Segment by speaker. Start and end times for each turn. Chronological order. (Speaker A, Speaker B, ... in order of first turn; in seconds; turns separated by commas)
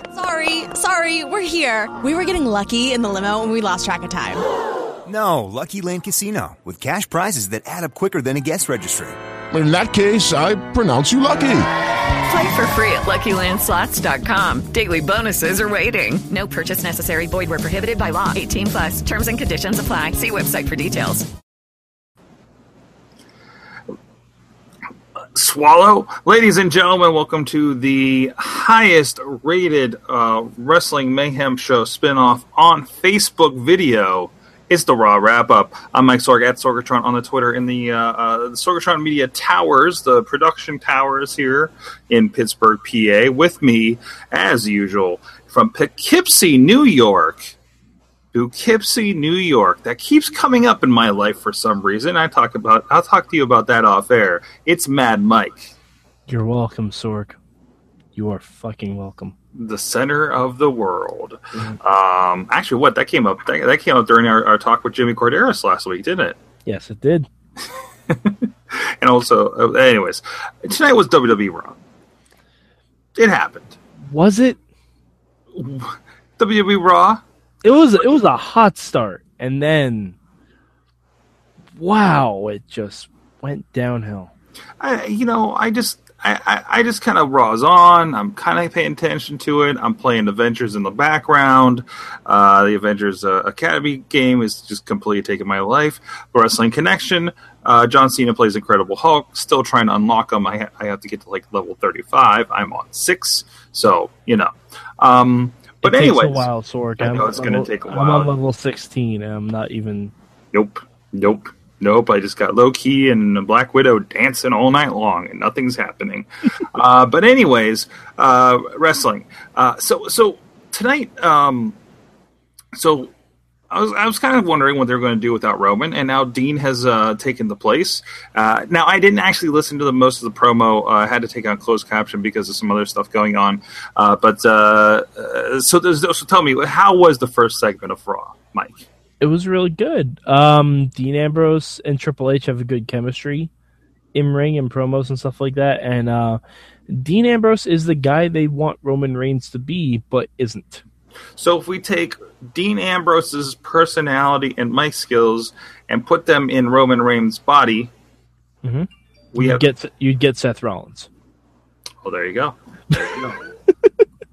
Speaker A: 0.1-4.4, Speaker B: 5.0-9.2, Speaker C: 9.5-11.7, Speaker D: 12.2-21.2, Speaker E: 25.3-47.5, Speaker E: 48.3-55.7, Speaker F: 56.3-57.4, Speaker F: 58.1-59.3, Speaker E: 59.5-66.4, Speaker F: 66.6-67.3, Speaker E: 68.1-71.8, Speaker E: 73.2-73.8, Speaker F: 74.1-74.6, Speaker E: 75.5-77.2, Speaker F: 77.6-80.1, Speaker F: 81.7-84.3, Speaker E: 84.8-108.3, Speaker F: 105.8-110.1, Speaker E: 110.5-121.8, Speaker E: 122.7-123.1, Speaker E: 123.7-138.9, Speaker F: 139.2-143.5, Speaker F: 144.1-150.8, Speaker E: 151.3-157.9, Speaker F: 158.6-161.1, Speaker E: 159.3-159.6, Speaker E: 162.0-163.3, Speaker F: 162.9-163.9